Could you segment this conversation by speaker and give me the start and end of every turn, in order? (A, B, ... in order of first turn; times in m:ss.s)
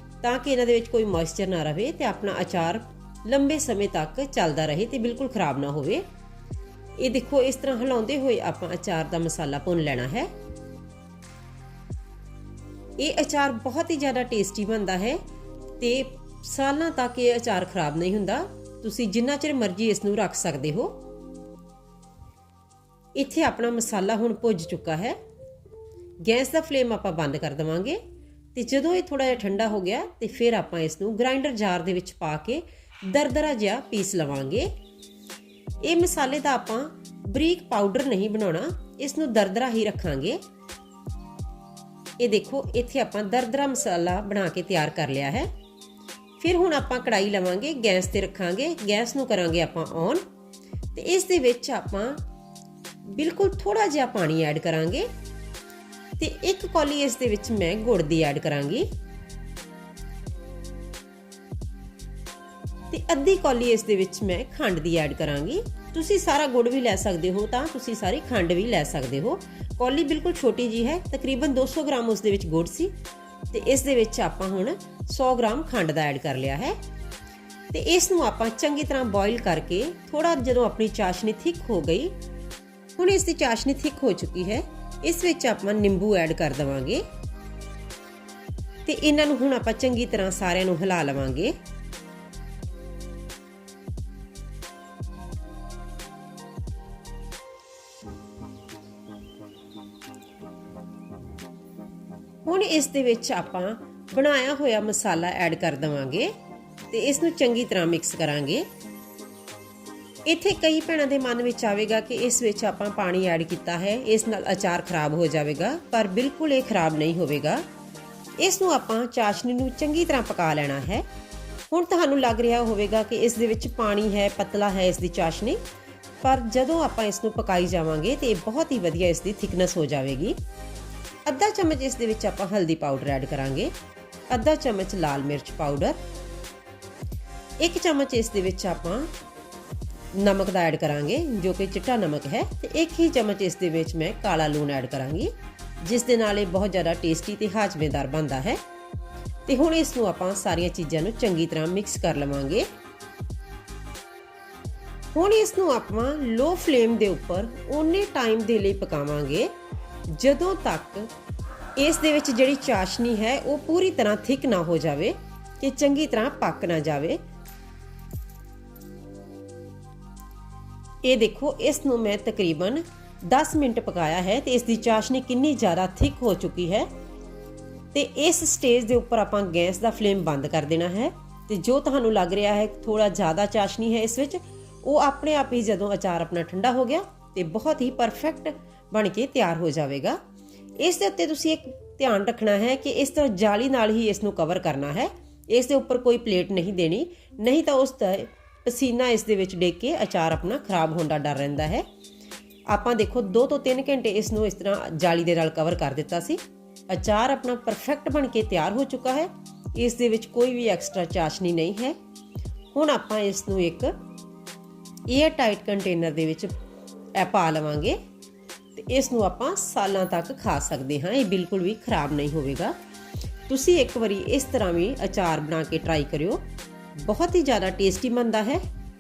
0:00.2-0:06.0 A
0:07.0-0:10.3 A
0:13.0-0:15.2 A
0:15.8-0:21.0 A
0:23.2-0:25.2 A
0:26.2-0:28.0 A
0:28.5-0:34.7 A
0:35.8-0:40.4 A
0:42.2-0:45.5 A
0:46.4-0:50.2 A
0:50.9-0:52.2 A
0:53.1-0:55.1 A
0:56.2-0:58.9 A
1:02.9-1:13.0 A
1:13.5-1:16.8 A
1:17.7-1:22.1 A
1:23.0-1:27.0 A
1:28.8-1:31.6 A
1:42.4-1:46.3 A
1:46.9-1:48.7 A
1:50.3-1:57.6 A
1:58.4-2:01.0 A
2:01.7-2:05.6 A
2:06.2-2:10.4 A
2:11.3-2:13.7 A
2:14.3-2:16.0 A
2:17.6-2:19.1 A
2:20.1-2:28.6 A
2:29.5-2:32.7 A
2:35.1-2:39.5 A
2:40.1-2:41.1 A
2:41.8-2:47.2 A
2:51.0-2:56.9 A
2:57.9-3:10.2 A
3:10.8-3:21.8 A
3:22.7-3:32.0 A
3:32.7-3:34.0 A
3:35.1-3:36.5 A
3:37.2-3:38.0 A
3:38.8-3:42.8 A
3:43.5-3:46.4 A
3:47.0-3:48.6 A